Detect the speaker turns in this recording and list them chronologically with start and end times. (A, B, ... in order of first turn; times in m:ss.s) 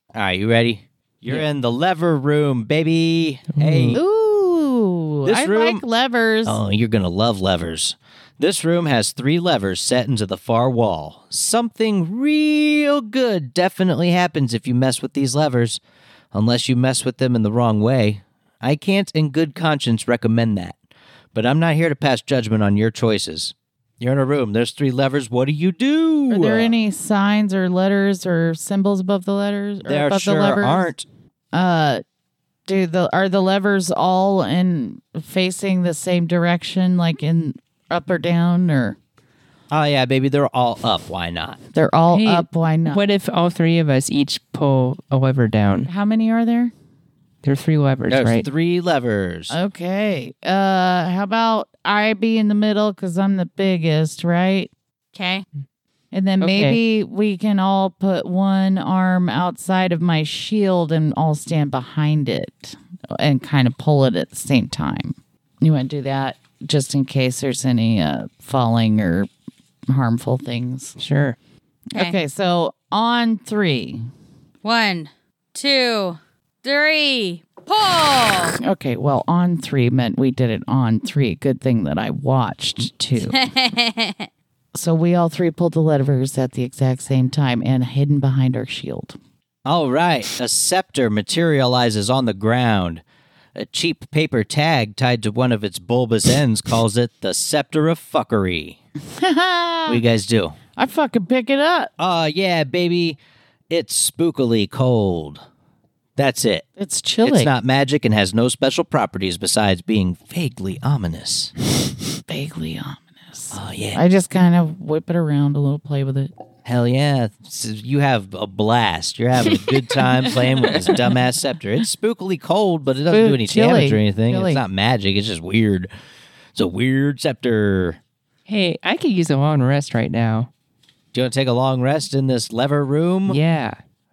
0:00.1-0:04.0 A
0:03.5-0:04.0 B
0:03.9-0:06.6 C
0:05.2-0:05.8 A
0:06.4-0:15.8 A
0:16.3-0:20.8 A
0:21.3-0:26.7 A
0:26.3-0:30.9 C
0:29.8-0:31.0 A
0:31.5-0:32.0 C
0:32.7-0:39.0 C
0:39.7-0:41.6 A
0:41.7-0:43.0 C
0:42.1-0:45.9 B
0:45.9-0:46.7 C
0:47.4-0:48.5 B
0:48.1-0:49.6 A
0:49.5-0:54.7 C
0:55.1-0:55.4 D
0:56.1-1:09.3 C
0:56.4-0:56.8 B
1:09.9-1:11.0 C
1:11.0-1:11.4 B
1:11.9-1:14.0 C
1:14.6-1:18.6 D
1:18.6-1:23.4 C
1:23.2-1:24.3 D
1:24.7-1:29.2 C
1:29.6-1:33.0 A
1:33.5-1:38.8 A
1:39.1-1:40.0 C
1:39.9-1:40.6 A
1:40.8-1:41.9 C
1:42.0-1:43.2 A
1:43.7-1:45.4 A
1:46.2-1:46.6 A
1:46.8-1:47.5 C
1:47.2-1:51.5 A
1:52.3-1:56.3 C
1:53.5-1:54.0 A
1:56.6-2:05.9 A
2:03.1-2:04.6 C
2:06.5-2:08.0 A
2:08.5-2:10.5 B
2:11.1-2:13.4 A
2:13.3-2:13.8 B